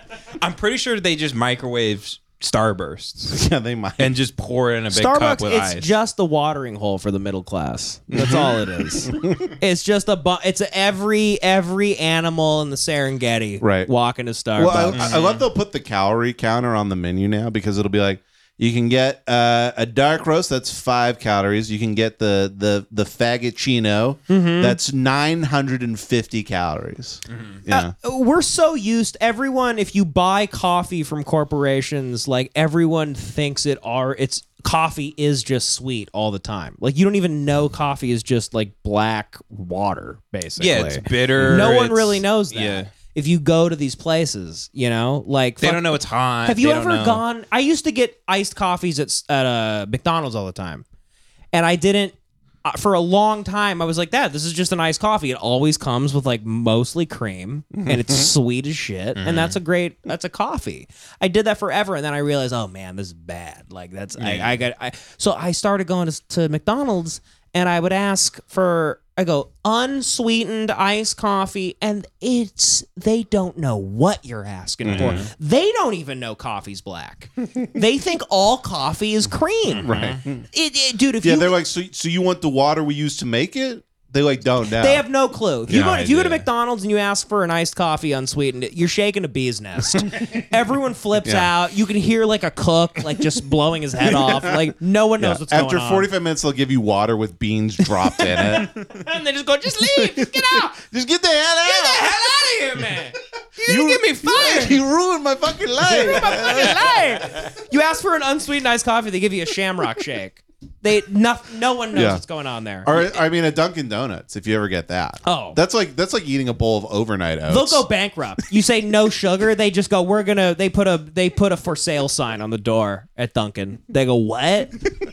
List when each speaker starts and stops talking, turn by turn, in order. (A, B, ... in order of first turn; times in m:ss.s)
0:00.4-0:03.4 A
0:03.3-0:04.1 B
0:04.0-0:05.9 A
0:04.9-0:15.1 C
0:08.1-0:09.5 B
0:13.6-0:13.9 B
0:14.6-0:27.9 B
0:14.9-0:15.4 A
0:24.3-0:24.8 C
0:27.3-0:27.6 A
0:27.7-0:50.8 C
0:40.6-0:42.9 A
0:45.6-0:47.2 A
0:51.5-1:19.9 C
0:57.7-0:58.3 B
0:59.2-0:59.6 A
1:04.2-1:04.5 A
1:14.8-1:15.2 B
1:14.9-1:15.3 A
1:19.7-1:20.2 A
1:19.8-1:20.4 B
1:20.5-1:21.6 C
1:21.2-1:25.0 B
1:24.8-1:36.1 C
1:25.7-1:26.1 B
1:25.7-1:26.4 A
1:31.2-1:31.5 B
1:34.2-1:34.6 B
1:35.2-1:38.7 B
1:38.1-1:40.7 C
1:39.8-1:42.2 B
1:41.6-1:44.8 C
1:43.6-1:46.9 B
1:45.8-1:52.9 C
1:51.9-1:52.2 B
1:52.8-1:57.8 B
1:55.2-1:55.6 C
1:57.5-2:04.8 C